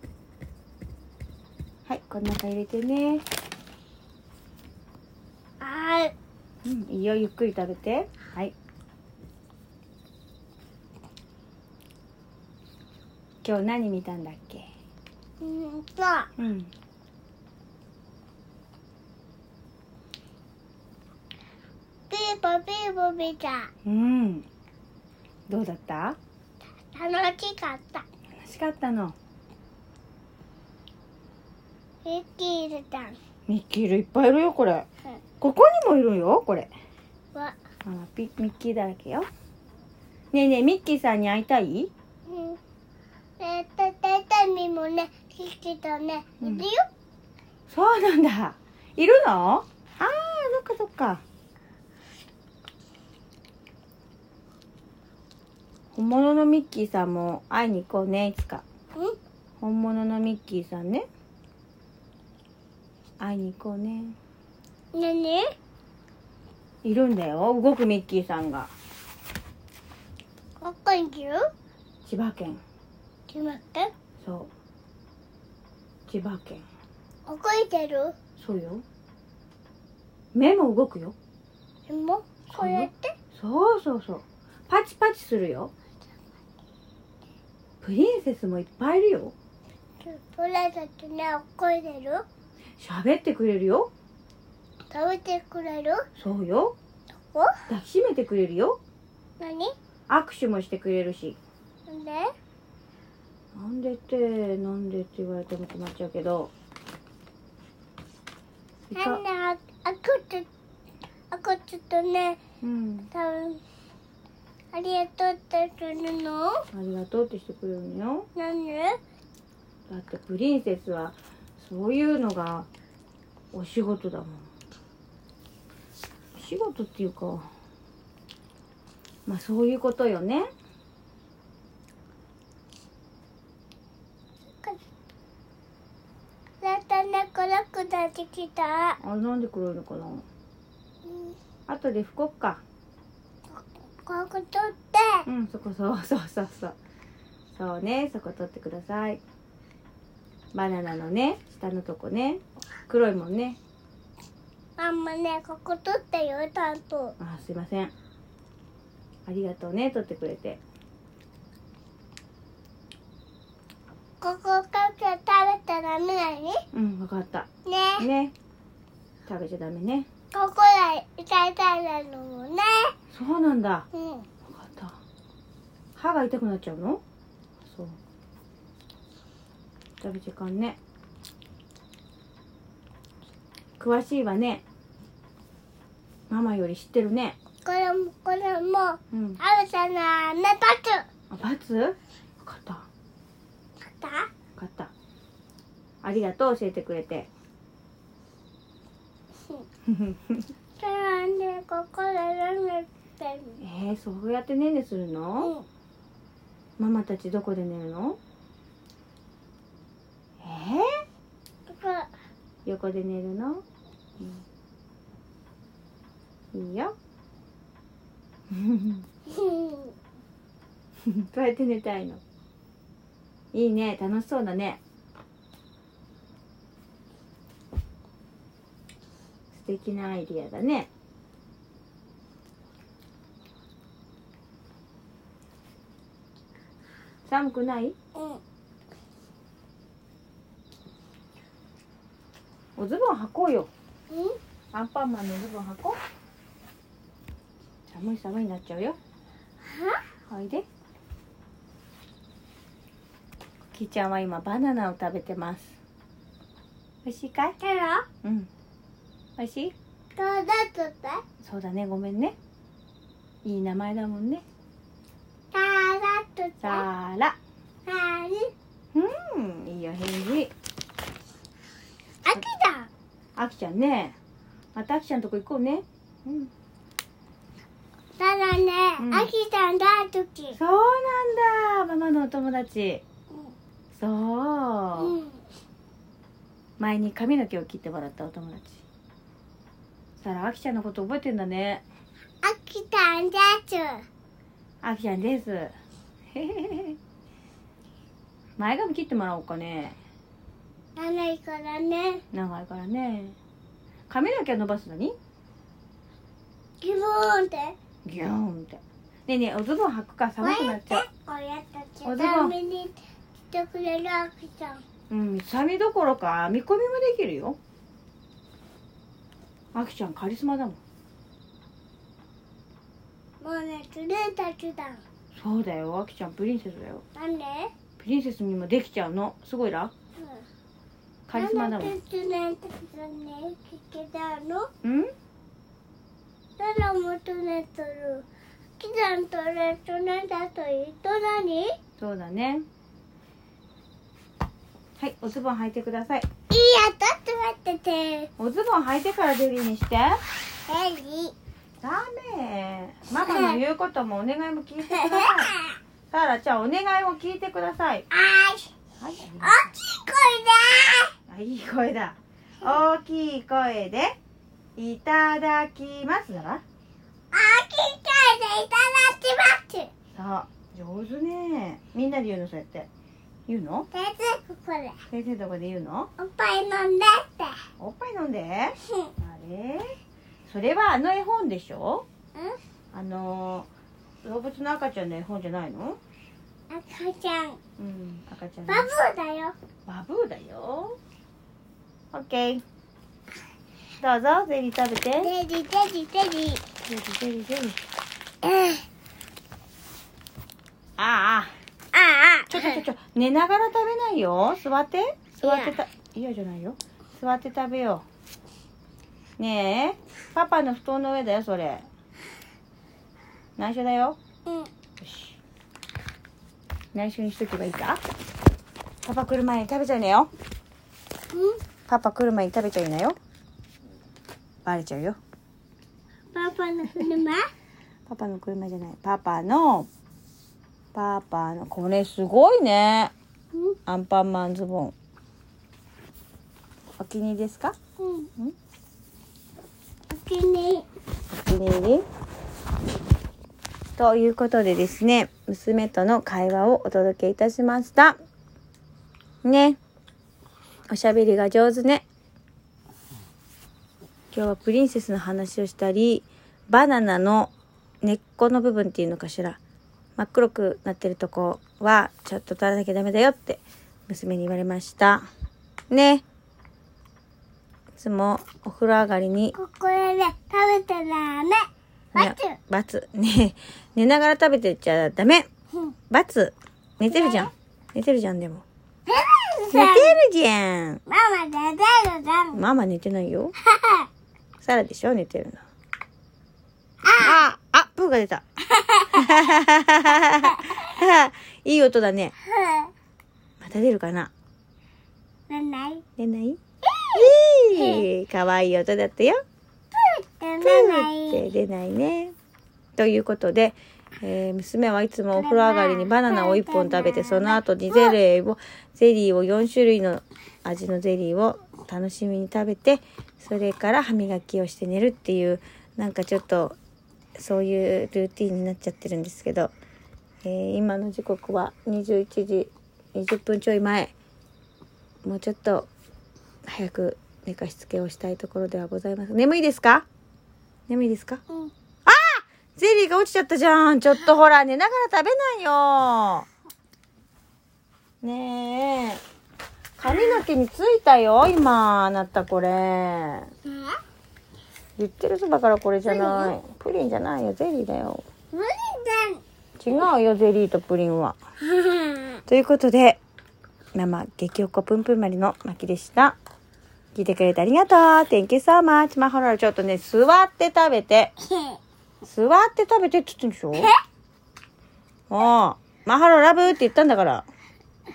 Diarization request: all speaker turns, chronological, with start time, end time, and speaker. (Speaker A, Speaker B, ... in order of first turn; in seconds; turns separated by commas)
Speaker A: 1.9-3.2, Speaker B: 5.6-6.1, Speaker A: 6.6-8.5, Speaker A: 13.4-14.7, Speaker B: 15.4-16.3, Speaker A: 16.4-16.7, Speaker B: 22.1-23.7, Speaker A: 23.8-24.4, Speaker A: 25.5-26.2, Speaker B: 26.9-28.0, Speaker A: 28.4-29.1, Speaker B: 32.0-33.2, Speaker A: 33.5-34.9, Speaker A: 35.4-36.7, Speaker A: 37.8-39.3, Speaker A: 40.3-41.9, Speaker B: 42.3-42.6, Speaker B: 43.4-46.9, Speaker A: 46.4-46.6, Speaker A: 47.7-51.2, Speaker A: 55.9-58.6, Speaker A: 59.6-61.1, Speaker A: 63.2-64.2, Speaker B: 64.9-65.4, Speaker A: 66.8-68.7, Speaker B: 70.6-71.4, Speaker A: 72.0-72.6, Speaker B: 73.3-73.9, Speaker A: 74.2-74.5, Speaker A: 76.1-76.6, Speaker B: 77.2-78.1, Speaker A: 78.4-78.8, Speaker A: 80.3-81.1, Speaker B: 81.9-83.1, Speaker A: 82.5-85.7, Speaker A: 87.8-89.3, Speaker B: 90.0-92.2, Speaker A: 92.8-93.9, Speaker B: 94.9-96.0, Speaker A: 96.2-96.7, Speaker A: 97.7-98.8, Speaker B: 99.4-99.7, Speaker A: 100.1-101.4, Speaker B: 101.9-102.3, Speaker A: 103.5-106.5, Speaker A: 108.9-109.2, Speaker B: 108.9-110.5, Speaker B: 111.3-112.4, Speaker A: 112.6-113.1, Speaker B: 113.1-113.6, Speaker B: 114.7-116.6, Speaker A: 116.7-118.3, Speaker B: 118.3-119.0, Speaker A: 119.9-122.7, Speaker A: 123.5-124.4, Speaker A: 126.3-127.5, Speaker A: 129.2-130.5, Speaker B: 136.6-139.0, Speaker A: 139.0-140.2, Speaker B: 141.0-141.3, Speaker A: 141.7-142.6, Speaker B: 143.5-145.2, Speaker A: 145.2-146.8, Speaker A: 147.5-149.2, Speaker A: 150.5-153.6, Speaker B: 154.8-157.2, Speaker A: 157.2-157.9, Speaker A: 159.2-160.6, Speaker B: 164.2-166.6, Speaker A: 166.7-167.5, Speaker B: 167.7-168.1, Speaker A: 168.0-168.3, Speaker A: 169.2-170.1, Speaker B: 170.3-172.9, Speaker A: 173.1-173.9, Speaker B: 173.9-174.3, Speaker A: 174.4-175.0, Speaker A: 175.9-177.0, Speaker A: 177.6-178.0, Speaker A: 180.0-180.8, Speaker A: 183.8-184.6, Speaker A: 186.3-187.3, Speaker B: 187.6-191.0, Speaker A: 189.1-189.4, Speaker A: 191.3-192.9, Speaker B: 193.9-194.3, Speaker A: 194.6-194.9, Speaker A: 196.0-197.3, Speaker A: 199.9-200.5, Speaker B: 200.8-203.6, Speaker A: 203.6-205.5, Speaker B: 205.4-205.7, Speaker A: 206.8-208.2, Speaker A: 210.4-210.9, Speaker B: 211.7-212.1, Speaker A: 212.6-213.6, Speaker A: 214.2-214.4, Speaker A: 216.5-216.9, Speaker A: 218.5-219.1, Speaker B: 219.2-219.9, Speaker A: 221.0-222.2, Speaker A: 223.5-224.8, Speaker A: 229.5-230.9, Speaker A: 237.2-237.9, Speaker B: 238.1-238.4, Speaker A: 242.8-243.7, Speaker B: 244.1-244.4, Speaker A: 244.7-246.0, Speaker A: 247.9-249.0, Speaker B: 249.6-250.0, Speaker A: 250.3-250.7, Speaker A: 253.7-255.8, Speaker A: 257.0-257.6, Speaker B: 257.6-258.1, Speaker A: 258.2-258.5, Speaker A: 259.4-259.7, Speaker B: 260.1-261.2, Speaker A: 261.4-262.4, Speaker A: 263.4-264.4, Speaker B: 265.5-266.8, Speaker A: 266.6-267.4, Speaker B: 267.8-268.5, Speaker A: 268.9-270.5, Speaker B: 272.2-272.9, Speaker A: 273.4-274.2, Speaker A: 274.7-276.5, Speaker B: 278.1-280.6, Speaker A: 279.0-279.3, Speaker A: 280.5-283.0, Speaker A: 283.9-285.2, Speaker B: 285.0-285.4, Speaker A: 286.8-288.8, Speaker A: 290.2-291.8, Speaker B: 292.4-294.0, Speaker A: 294.8-295.7, Speaker A: 296.3-297.0, Speaker A: 298.6-300.0, Speaker B: 300.9-302.2, Speaker A: 302.3-303.4, Speaker A: 304.1-305.1, Speaker B: 306.8-307.8, Speaker A: 308.0-311.1, Speaker B: 310.4-313.0, Speaker A: 312.0-312.5, Speaker B: 313.5-314.8, Speaker A: 315.1-317.6, Speaker A: 319.7-320.8, Speaker B: 323.4-325.0, Speaker A: 325.3-327.0, Speaker B: 327.1-327.7, Speaker A: 328.0-329.9, Speaker B: 330.1-330.4, Speaker A: 331.3-332.0, Speaker B: 331.3-334.7, Speaker A: 334.8-335.1, Speaker B: 336.6-338.2, Speaker B: 338.8-341.7, Speaker A: 342.0-342.6, Speaker A: 345.0-346.3, Speaker B: 346.5-348.3, Speaker A: 348.4-350.2, Speaker B: 350.7-351.3, Speaker A: 351.8-355.5, Speaker B: 353.2-353.6, Speaker B: 354.9-355.8, Speaker A: 356.1-358.1, Speaker B: 358.1-358.7, Speaker A: 359.0-359.7, Speaker B: 359.4-361.1, Speaker A: 361.3-364.2, Speaker A: 364.8-366.6, Speaker B: 367.3-369.9, Speaker A: 370.1-372.9, Speaker A: 373.5-373.9, Speaker B: 373.9-375.0, Speaker A: 375.1-376.1, Speaker B: 376.2-377.6, Speaker A: 377.8-379.9, Speaker A: 380.5-382.1, Speaker A: 382.9-383.7, Speaker A: 384.2-386.0, Speaker B: 386.7-387.6, Speaker A: 387.8-388.9, Speaker B: 388.7-389.5, Speaker A: 389.9-391.0, Speaker A: 392.1-392.6, Speaker A: 394.0-395.3, Speaker B: 395.2-396.6, Speaker A: 396.8-397.8, Speaker B: 398.4-398.8, Speaker A: 401.0-401.5, Speaker B: 401.9-402.8, Speaker A: 402.5-408.0, Speaker B: 405.4-405.8, Speaker A: 409.4-411.9, Speaker A: 413.6-414.2, Speaker A: 415.0-415.4, Speaker A: 416.9-418.0, Speaker A: 419.0-420.3, Speaker B: 421.3-421.6, Speaker A: 421.9-423.2, Speaker A: 424.6-425.2, Speaker B: 426.3-427.5, Speaker A: 428.1-429.9, Speaker A: 430.9-433.1, Speaker A: 433.9-434.9, Speaker A: 437.0-437.8, Speaker B: 438.0-438.3, Speaker B: 440.1-440.9, Speaker A: 441.3-442.0, Speaker A: 444.0-448.1, Speaker A: 449.4-449.8, Speaker A: 450.9-452.0, Speaker A: 454.3-459.6, Speaker A: 460.2-465.3, Speaker A: 465.9-466.2, Speaker A: 468.0-469.5, Speaker B: 469.5-472.6, Speaker A: 472.1-475.5, Speaker A: 476.1-478.6, Speaker B: 477.1-477.5, Speaker B: 479.1-480.2, Speaker A: 479.7-481.0, Speaker B: 481.1-482.6, Speaker A: 482.5-483.5, Speaker B: 483.6-484.1, Speaker A: 484.6-485.6, Speaker B: 487.0-487.4, Speaker A: 487.1-488.4, Speaker B: 488.7-489.4, Speaker A: 489.1-492.3, Speaker B: 490.4-490.9, Speaker B: 492.4-492.9, Speaker A: 493.6-494.3, Speaker B: 495.5-496.0, Speaker A: 496.2-496.6, Speaker B: 496.9-498.1, Speaker A: 497.1-499.4, Speaker B: 499.9-501.4, Speaker A: 500.6-502.3, Speaker A: 502.9-516.8, Speaker B: 505.4-508.1, Speaker A: 517.4-519.7, Speaker A: 520.4-524.1, Speaker A: 525.2-525.9, Speaker A: 526.6-530.0, Speaker A: 530.9-531.4, Speaker A: 532.0-536.5, Speaker A: 538.2-539.2, Speaker A: 540.0-543.5, Speaker B: 543.7-544.0, Speaker A: 545.0-548.2, Speaker B: 546.0-546.6, Speaker B: 548.5-549.4, Speaker A: 549.8-551.4, Speaker B: 551.6-552.4, Speaker A: 552.5-553.2, Speaker A: 553.9-556.4, Speaker A: 557.1-561.3, Speaker B: 561.5-561.8, Speaker A: 562.2-563.9, Speaker A: 565.3-567.5